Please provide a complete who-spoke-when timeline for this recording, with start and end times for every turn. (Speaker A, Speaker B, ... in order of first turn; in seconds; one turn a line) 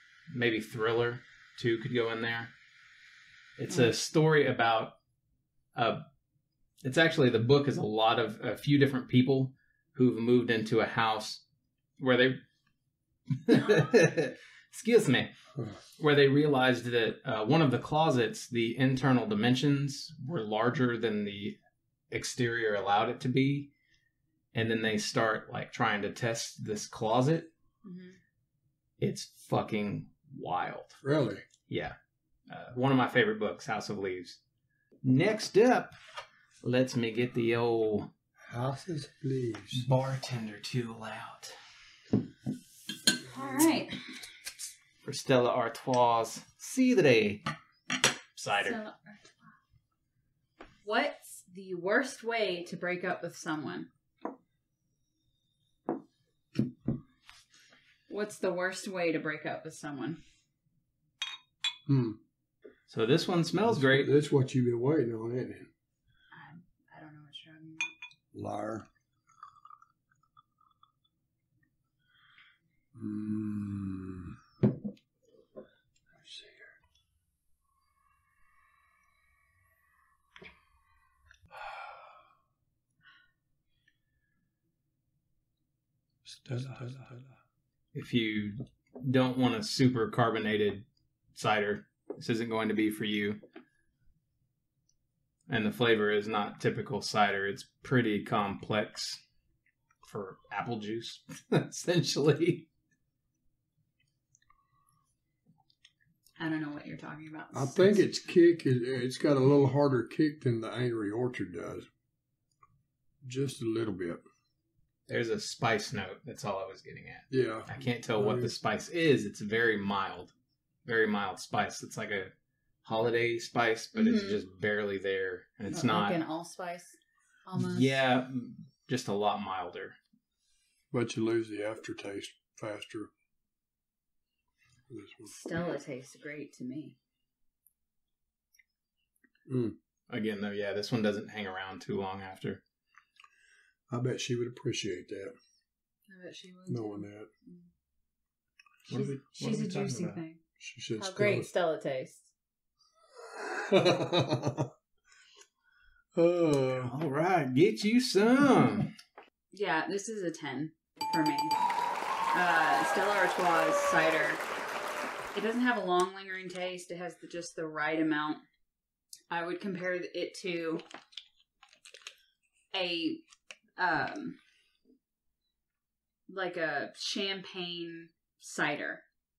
Speaker A: 0.3-2.5
Speaker A: 3.6-5.0
Speaker A: 5.8-6.0
Speaker A: 6.8-11.4
Speaker A: 12.0-12.4
Speaker A: 13.4-15.3
Speaker A: 16.0-21.6
Speaker A: 22.1-23.7
Speaker A: 24.5-27.5
Speaker B: 27.8-28.2
Speaker A: 29.0-31.0
Speaker C: 31.0-31.4
Speaker A: 31.7-32.0
Speaker A: 32.5-34.4
Speaker A: 35.0-35.9
Speaker A: 36.6-38.1
Speaker C: 38.4-39.9
Speaker A: 39.7-41.6
Speaker B: 43.2-44.0
Speaker A: 45.0-47.4
Speaker A: 48.4-48.8
Speaker B: 48.5-49.5
Speaker B: 50.9-53.9
Speaker B: 58.1-60.2
Speaker C: 61.9-62.2
Speaker A: 62.9-64.1
Speaker C: 63.6-65.7
Speaker B: 66.3-67.9
Speaker C: 68.3-68.9
Speaker C: 73.0-74.4
Speaker C: 76.1-76.7
Speaker C: 81.5-82.1
Speaker C: 86.2-87.3
Speaker A: 87.9-93.4
Speaker A: 95.5-99.2
Speaker A: 100.0-102.7
Speaker B: 106.4-108.1
Speaker C: 107.5-111.9
Speaker C: 113.2-114.2
Speaker A: 115.1-120.3
Speaker C: 117.3-118.5
Speaker A: 120.9-122.3
Speaker A: 122.8-126.2
Speaker B: 123.9-124.4
Speaker B: 125.7-128.0
Speaker A: 127.6-130.0
Speaker C: 130.9-133.1
Speaker C: 134.9-135.3
Speaker B: 135.3-137.0
Speaker C: 139.5-139.8
Speaker A: 140.1-142.6
Speaker C: 143.9-145.3
Speaker B: 146.1-147.7
Speaker C: 146.7-147.3
Speaker A: 148.9-150.2
Speaker B: 148.9-150.4
Speaker C: 150.6-151.5
Speaker B: 151.0-152.3
Speaker C: 153.3-154.7
Speaker C: 156.2-156.9
Speaker A: 156.8-158.9
Speaker B: 159.5-161.5
Speaker B: 162.3-164.4
Speaker B: 165.3-168.4
Speaker B: 169.3-170.8
Speaker B: 172.7-173.2
Speaker B: 173.8-174.4
Speaker B: 176.3-179.0